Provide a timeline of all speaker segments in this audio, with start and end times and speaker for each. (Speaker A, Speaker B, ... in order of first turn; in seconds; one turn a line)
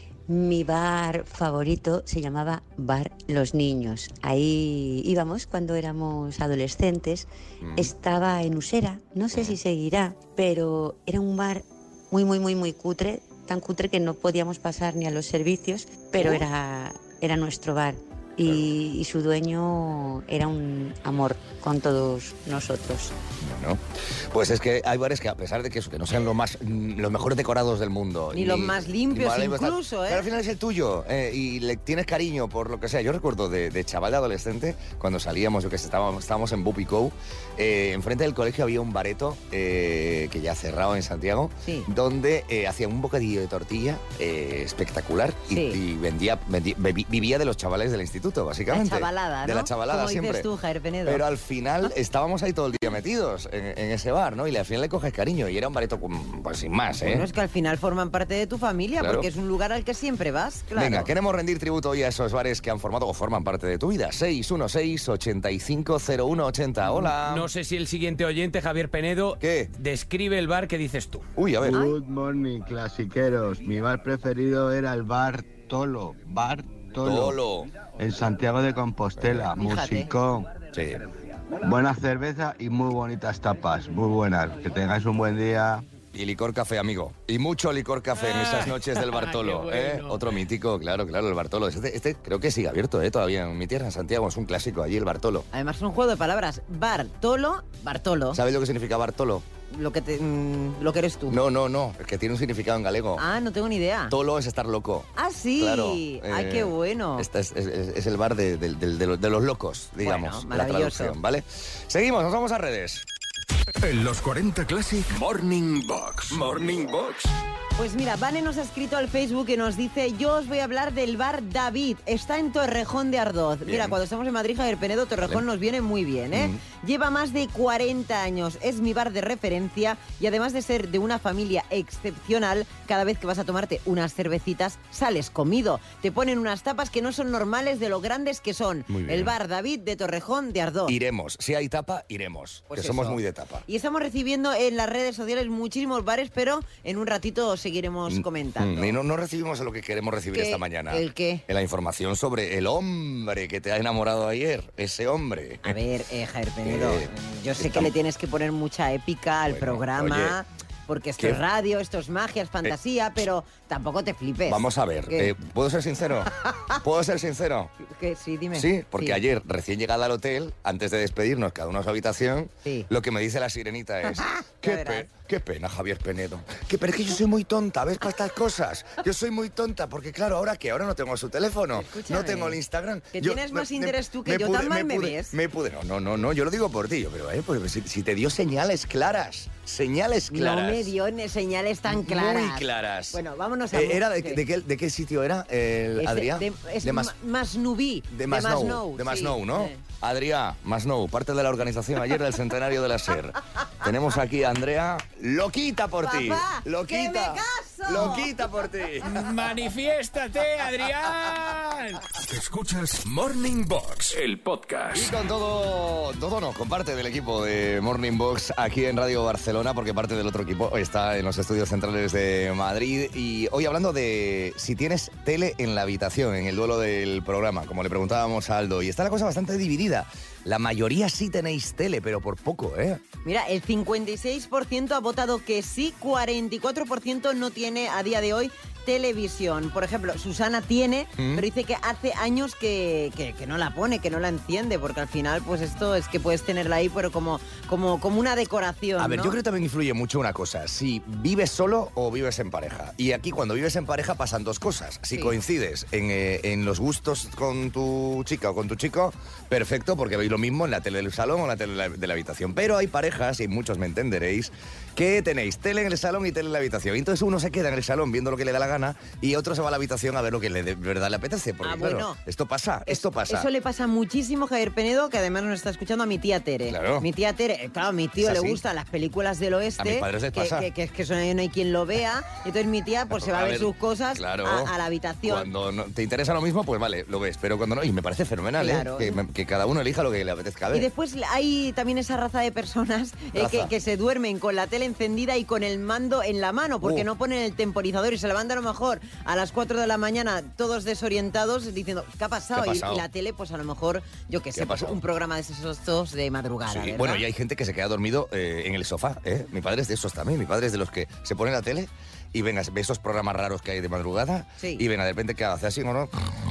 Speaker A: 0.3-23.1
Speaker B: 7.6-7.9
Speaker B: 9.3-9.6
Speaker B: 16.2-16.4
Speaker B: 23.4-50.5
Speaker C: 28.3-30.3
Speaker C: 45.5-45.8
Speaker C: 48.7-51.2
Speaker B: 51.0-57.3
Speaker C: 57.0-61.1
Speaker B: 59.0-59.3
Speaker B: 60.8-67.5
Speaker D: 67.2-71.3
Speaker B: 69.4-69.7
Speaker B: 71.4-71.8
Speaker E: 71.6-80.6
Speaker C: 71.7-72.0
Speaker B: 77.0-77.7
Speaker B: 79.2-79.5
Speaker C: 79.6-80.1
Speaker B: 80.7-81.0
Speaker E: 81.6-85.8
Speaker B: 86.1-95.5
Speaker D: 88.2-90.3
Speaker C: 95.5-98.4
Speaker B: 98.3-99.5
Speaker C: 99.7-101.4
Speaker B: 101.3-103.2
Speaker C: 103.2-104.1
Speaker B: 104.1-113.0
Speaker C: 105.2-107.3
Speaker C: 110.0-111.2
Speaker F: 113.8-117.3
Speaker B: 116.3-117.1
Speaker C: 117.8-141.0
Speaker B: 123.7-124.0
Speaker B: 126.3-126.6
Speaker B: 138.9-139.3
Speaker B: 140.9-143.7
Speaker C: 142.7-149.0
Speaker B: 148.1-155.8
Speaker C: 150.3-151.4
Speaker C: 155.6-165.3
Speaker B: 156.7-157.9
Speaker B: 159.5-160.4
Speaker B: 164.5-167.7
Speaker C: 167.8-169.2
Speaker B: 168.5-190.9
Speaker C: 174.1-175.1
Speaker C: 181.8-182.6
Speaker C: 183.1-185.3
Speaker C: 190.3-194.4
Speaker B: 191.9-193.2
Speaker B: 193.7-197.1
Speaker C: 196.0-199.8
Speaker B: 198.1-209.2
Speaker C: 206.0-208.3
Speaker D: 209.0-212.0
Speaker F: 212.2-215.1
Speaker B: 214.9-233.0
Speaker C: 233.2-249.4
Speaker B: 241.2-241.5
Speaker B: 249.0-273.5
Speaker C: 271.6-272.2
Speaker C: 272.9-285.5
Speaker B: 276.7-277.1
Speaker B: 278.2-278.6
Speaker B: 279.8-280.7
Speaker B: 283.2-284.7
Speaker B: 285.2-290.9
Speaker C: 288.6-289.2
Speaker C: 290.7-307.2
Speaker B: 293.3-293.7
Speaker B: 296.8-297.1
Speaker B: 302.5-303.1
Speaker B: 304.5-305.0
Speaker B: 306.7-316.4
Speaker C: 314.6-314.9